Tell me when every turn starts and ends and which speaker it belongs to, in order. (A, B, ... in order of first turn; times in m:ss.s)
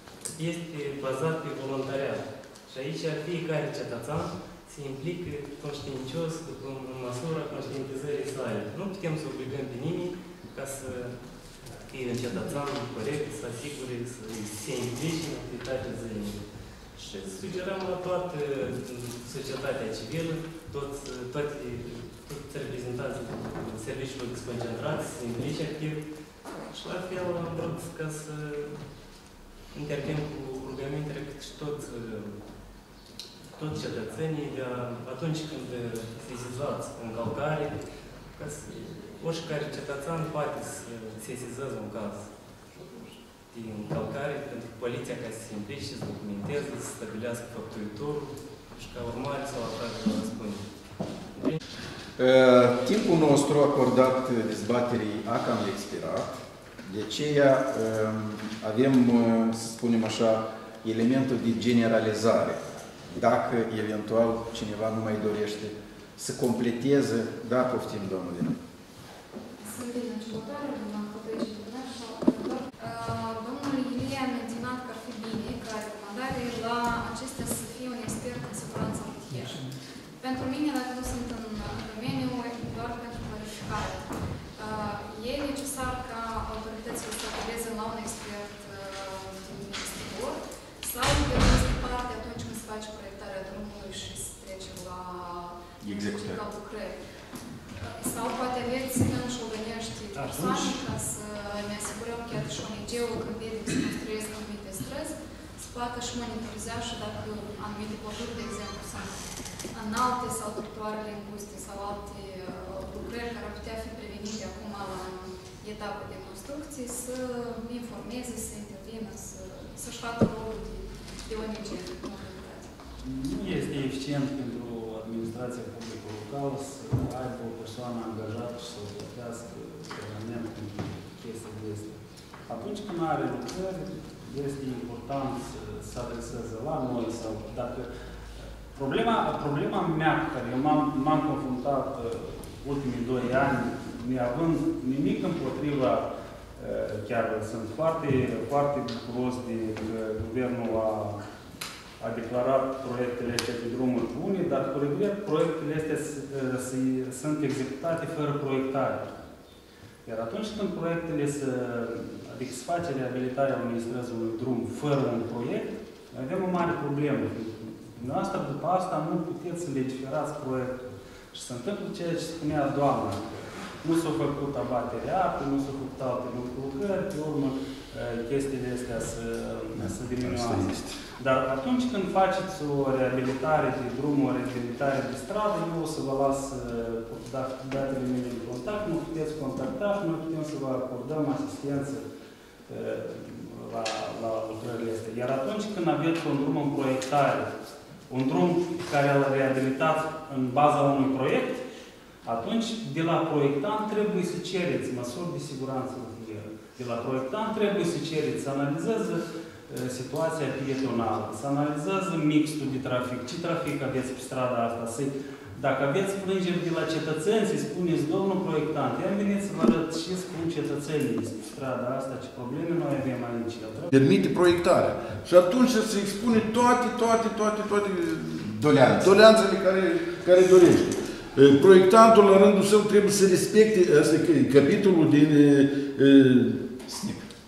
0:00.4-0:11.2 A
0:11.7-0:16.4 A
0:16.9-0:26.0 A
0:26.6-0:28.8 A
0:29.7-0:32.4 A
0:33.5-0:37.8 A
0:38.3-0:50.6 A
0:51.3-0:51.6 A
0:52.2-1:08.6 B
1:09.6-1:19.7 C
1:20.2-1:37.0 C
1:35.8-1:36.4 B
1:37.8-1:49.1 C
1:40.1-1:40.8 D
1:49.7-2:02.7 C
2:03.0-2:17.9 D
2:18.7-2:26.0 D
2:26.6-2:31.2 D
2:32.0-2:39.1 D
2:40.0-2:53.2 D
2:53.8-3:12.0 D
2:59.8-3:01.0 E
3:12.7-3:17.5 D
3:18.1-3:21.6 D
3:22.2-3:43.9 D
3:43.9-3:56.6 E
3:48.4-3:49.1 B
3:56.9-3:57.2 B